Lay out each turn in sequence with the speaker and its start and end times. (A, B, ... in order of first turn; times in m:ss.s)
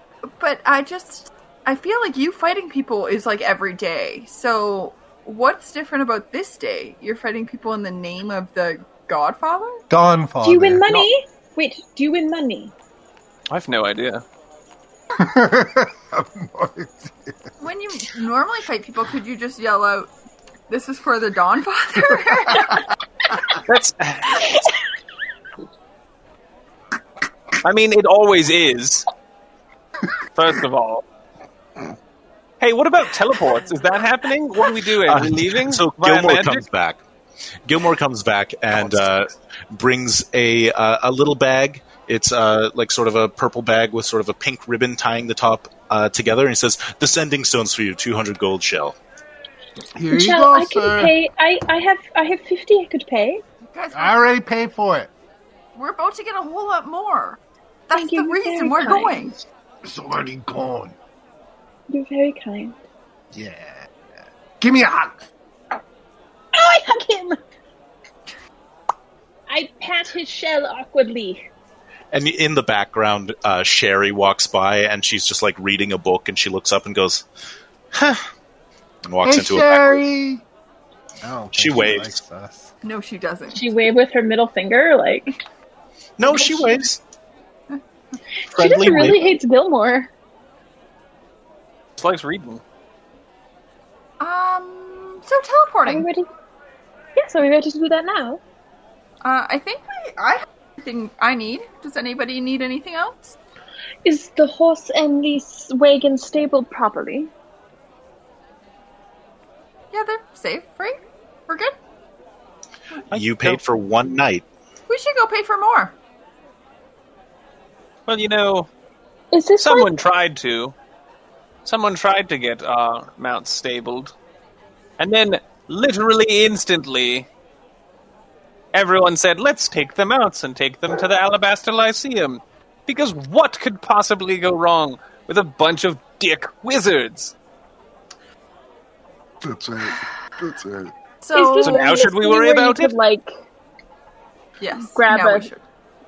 0:00.2-0:09.8 A
0:09.9-0:10.9 B
0:10.4-0:12.7 C
0:13.5-0:14.2 D
0:15.2-0:17.4 B
0:17.6-0:20.1 A
0:20.7-0:22.9 A
0:23.6-0:24.7 D
0:27.6-0:29.0 D
0:30.3-0:31.0 D
0:32.6-0:36.6 D
0:35.0-0:37.0 E
0:37.6-0:49.0 E
0:38.8-0:39.1 D
0:49.9-0:51.2 B
0:50.1-0:53.4 C
0:53.7-0:54.1 A
0:53.9-0:55.1 B
0:55.8-0:59.4 A
0:57.9-0:59.3 C
0:59.8-1:00.9 B
1:01.9-1:02.8 C
1:03.3-1:03.9 B
1:04.6-1:05.3 B
1:06.5-1:07.4 C
1:09.5-1:11.5 C
1:12.1-1:17.2 E
1:17.9-1:18.3 E
1:19.0-1:20.0 E
1:19.2-1:20.4 B
1:21.2-1:22.7 B
1:21.5-1:22.2 E
1:22.8-1:23.6 A
1:23.5-1:25.4 C
1:26.2-1:27.0 E
1:26.4-1:26.6 C
1:28.5-1:29.4 E
1:28.5-1:30.1 C
1:32.0-1:32.6 D
1:34.2-1:36.1 A
1:35.8-1:36.3 C
1:37.2-1:38.4 C
1:39.2-1:43.4 A
1:44.0-1:47.3 C
1:49.9-1:51.7 A
1:53.1-1:53.6 D
1:53.1-1:54.4 E
1:54.9-1:56.0 A
1:58.1-1:58.7 D
1:59.3-1:59.9 C
1:59.6-2:00.7 D
2:01.6-2:04.1 D
2:05.0-2:07.3 D
2:08.7-2:17.3 D
2:19.4-2:20.9 B
2:21.2-2:22.0 A
2:21.3-2:23.3 C
2:21.6-2:22.9 D
2:24.6-2:25.6 A
2:24.8-2:25.5 C